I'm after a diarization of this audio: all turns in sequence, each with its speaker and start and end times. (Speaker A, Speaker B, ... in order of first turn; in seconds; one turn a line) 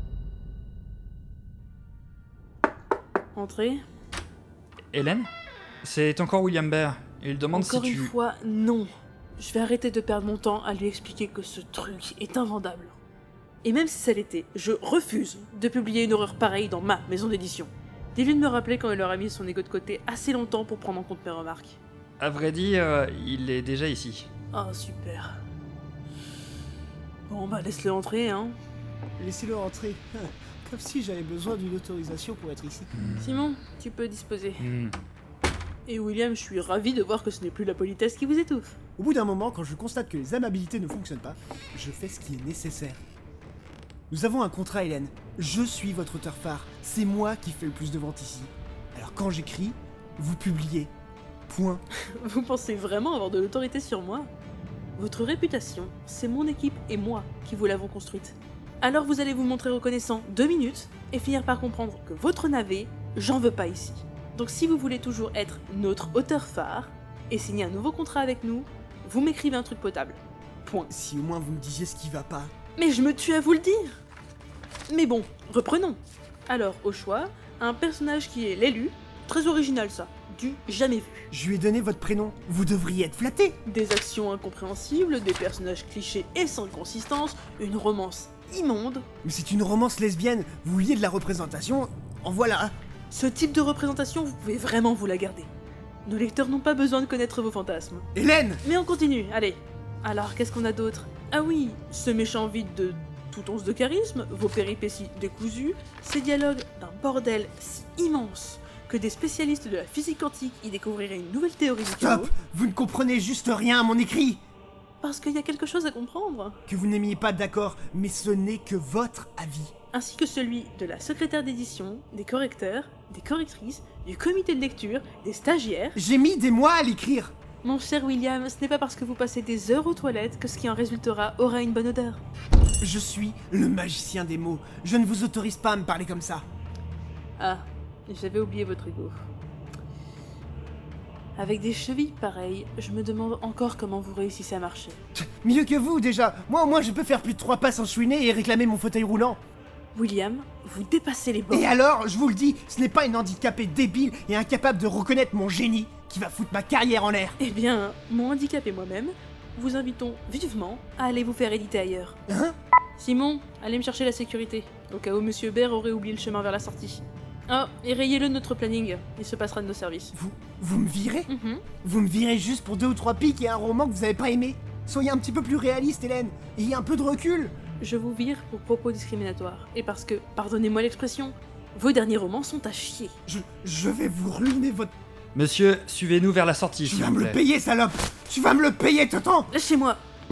Speaker A: 3.3-3.8
Speaker B: 4.9-5.3
Speaker B: 5.8-8.1
Speaker A: 7.5-13.0
Speaker A: 13.6-21.8
Speaker B: 22.2-24.3
Speaker A: 24.5-25.4
Speaker A: 27.3-28.6
Speaker C: 29.2-32.9
Speaker B: 32.9-33.3
Speaker A: 33.2-34.6
Speaker B: 34.6-35.0
Speaker A: 35.9-38.8
Speaker C: 39.0-43.0
Speaker C: 44.1-50.9
Speaker C: 51.5-51.8
Speaker A: 52.0-54.3
Speaker A: 55.0-70.9
Speaker C: 70.9-72.5
Speaker A: 72.8-74.0
Speaker A: 74.9-81.3
Speaker C: 81.3-83.6
Speaker A: 83.6-89.0
Speaker C: 89.2-92.7
Speaker A: 93.1-95.5
Speaker A: 96.0-98.0
Speaker C: 98.1-98.6
Speaker A: 98.6-112.3
Speaker C: 111.8-114.4
Speaker A: 115.0-116.6
Speaker C: 116.7-119.7
Speaker A: 119.9-126.0
Speaker C: 126.0-127.3
Speaker A: 127.6-132.2
Speaker C: 132.8-136.4
Speaker A: 137.4-139.1
Speaker A: 141.3-145.0
Speaker C: 145.1-149.4
Speaker A: 149.9-151.7
Speaker C: 151.5-157.4
Speaker A: 157.4-162.2
Speaker C: 162.3-162.6
Speaker A: 163.0-170.1
Speaker C: 170.1-171.3
Speaker A: 171.3-171.6
Speaker C: 171.8-177.5
Speaker A: 177.8-183.1
Speaker C: 183.2-184.9
Speaker B: 185.3-187.4
Speaker C: 186.8-189.5
Speaker A: 189.5-190.0